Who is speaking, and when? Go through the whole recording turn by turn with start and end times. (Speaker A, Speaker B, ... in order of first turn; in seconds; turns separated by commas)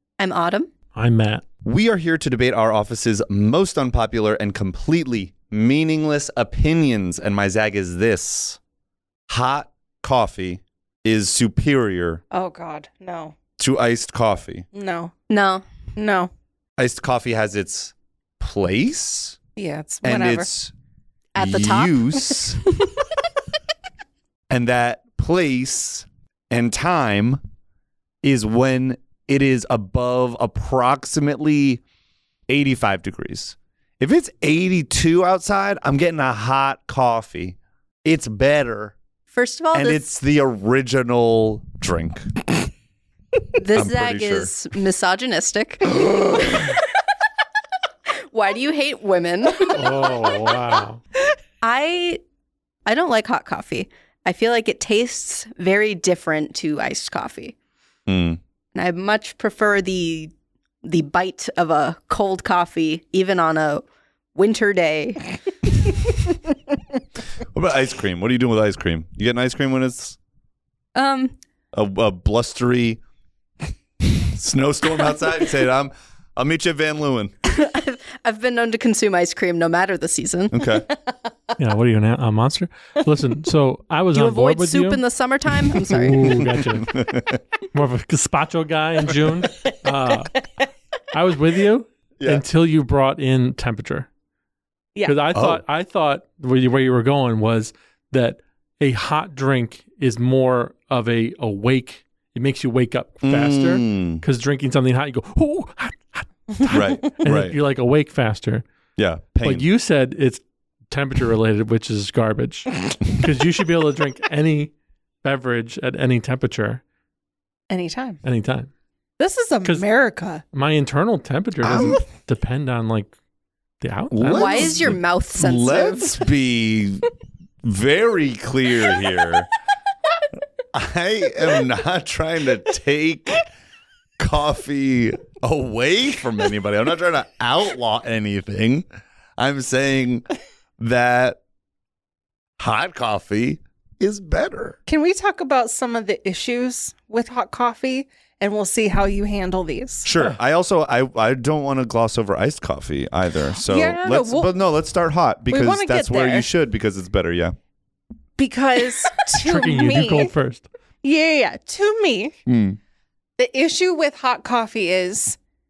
Speaker A: 0.2-0.7, Speaker B: 0.9-1.4, Speaker C: 1.6-8.6, Speaker C: 9.3-12.2, Speaker D: 12.3-13.3, Speaker C: 13.6-14.7, Speaker D: 14.7-15.1, Speaker A: 15.3-15.6, Speaker D: 15.9-16.3, Speaker C: 16.8-19.4, Speaker D: 19.6-20.5, Speaker C: 20.0-20.7, Speaker A: 21.3-22.8, Speaker C: 21.4-22.6, Speaker C: 24.5-27.4, Speaker C: 28.2-31.8, Speaker C: 32.5-39.0, Speaker A: 39.3-40.1, Speaker C: 39.7-42.3, Speaker A: 43.6-46.8, Speaker C: 43.7-44.5, Speaker A: 48.3-49.8, Speaker B: 49.7-51.0, Speaker A: 51.6-52.2, Speaker A: 52.9-57.5, Speaker C: 58.1-58.4, Speaker A: 58.7-60.3, Speaker A: 60.8-65.3, Speaker C: 67.5-70.2, Speaker A: 70.9-71.3, Speaker C: 71.7-73.0, Speaker C: 74.0-77.3, Speaker A: 77.5-81.0, Speaker C: 80.5-80.8, Speaker B: 81.6-85.0, Speaker A: 84.1-86.2, Speaker B: 85.6-87.0, Speaker C: 86.4-87.4, Speaker B: 87.7-90.4, Speaker B: 91.1-94.1, Speaker B: 95.0-108.6, Speaker C: 95.3-95.6, Speaker C: 103.2-104.2, Speaker C: 106.6-107.6, Speaker C: 109.0-109.7, Speaker B: 109.4-114.7, Speaker B: 115.2-116.8, Speaker D: 117.7-118.2, Speaker B: 118.2-118.7, Speaker D: 119.2-120.4, Speaker B: 120.5-123.1, Speaker C: 121.6-122.0, Speaker B: 123.8-124.8, Speaker C: 124.1-127.1, Speaker A: 124.3-126.2, Speaker C: 127.6-129.5, Speaker C: 130.7-133.4, Speaker C: 134.2-138.8, Speaker C: 139.4-140.2, Speaker C: 140.8-141.4, Speaker C: 142.6-144.8, Speaker D: 144.9-150.1, Speaker C: 150.0-157.5, Speaker D: 153.5-154.5, Speaker D: 155.5-156.5, Speaker D: 158.4-160.3, Speaker B: 159.4-160.7, Speaker D: 161.0-162.3, Speaker C: 162.4-162.8, Speaker D: 163.4-165.4